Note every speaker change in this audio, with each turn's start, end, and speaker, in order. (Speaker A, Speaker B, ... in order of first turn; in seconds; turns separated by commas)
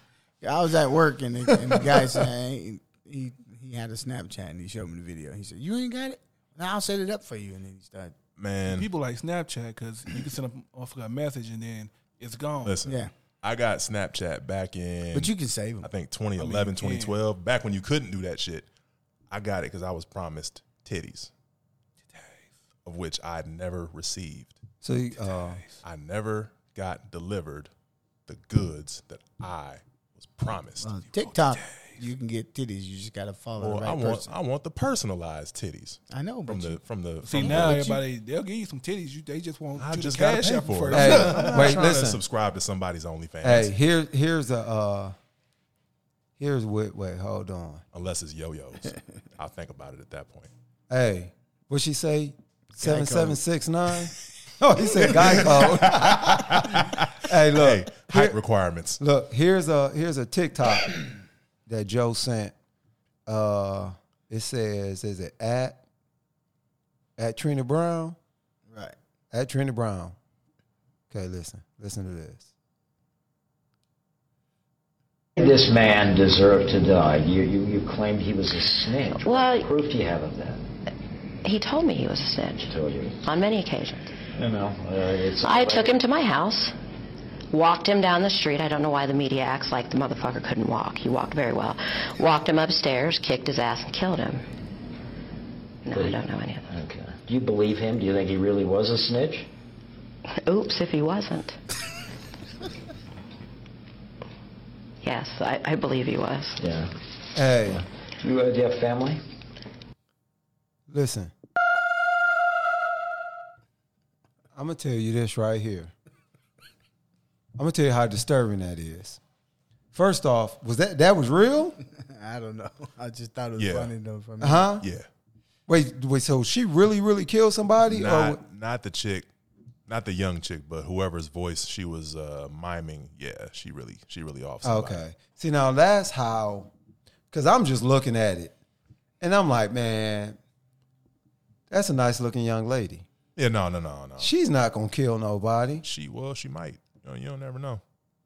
Speaker A: 0.4-8.2, Speaker B: 8.4-8.9, Speaker C: 8.7-12.8, Speaker B: 12.7-18.7, Speaker A: 12.9-13.1, Speaker A: 15.1-15.9, Speaker C: 16.4-17.2, Speaker B: 19.3-21.3, Speaker C: 22.1-22.4, Speaker B: 22.9-24.6, Speaker D: 24.8-25.6, Speaker C: 25.2-25.8, Speaker B: 25.8-27.7, Speaker B: 28.3-30.9, Speaker A: 30.8-34.3, Speaker C: 31.1-32.0, Speaker B: 33.6-37.8, Speaker A: 36.1-36.8, Speaker C: 37.2-41.8, Speaker A: 37.4-38.0, Speaker B: 39.8-43.7, Speaker D: 40.9-42.2, Speaker D: 43.4-45.1, Speaker D: 46.4-47.8, Speaker B: 47.9-50.5, Speaker D: 50.9-58.4, Speaker A: 52.8-53.4, Speaker B: 54.9-59.0, Speaker D: 59.0-61.1, Speaker D: 61.7-62.5, Speaker D: 63.3-65.8, Speaker D: 67.2-68.2, Speaker A: 68.7-69.0, Speaker D: 69.3-70.2, Speaker D: 71.1-72.5, Speaker E: 75.4-80.7, Speaker F: 79.2-79.7, Speaker F: 81.4-82.7, Speaker E: 82.7-83.2, Speaker F: 83.2-84.1, Speaker E: 84.3-85.9, Speaker F: 85.4-86.8, Speaker F: 87.5-94.5, Speaker F: 95.8-96.7, Speaker E: 95.9-99.5, Speaker F: 100.4-101.6, Speaker F: 105.0-106.6, Speaker E: 106.6-106.9, Speaker D: 107.3-107.8, Speaker E: 107.7-109.2, Speaker D: 110.9-111.3, Speaker D: 114.5-115.9, Speaker D: 117.6-119.2, Speaker D: 119.9-121.8, Speaker A: 121.8-124.8, Speaker B: 123.6-123.9, Speaker D: 124.4-124.9, Speaker B: 124.8-125.1, Speaker D: 125.7-128.4, Speaker B: 127.9-129.3, Speaker B: 129.9-135.0, Speaker D: 134.6-136.7, Speaker D: 137.3-138.5, Speaker D: 139.2-140.4, Speaker D: 141.7-143.1, Speaker B: 143.4-144.3, Speaker D: 144.2-145.8, Speaker B: 145.8-147.8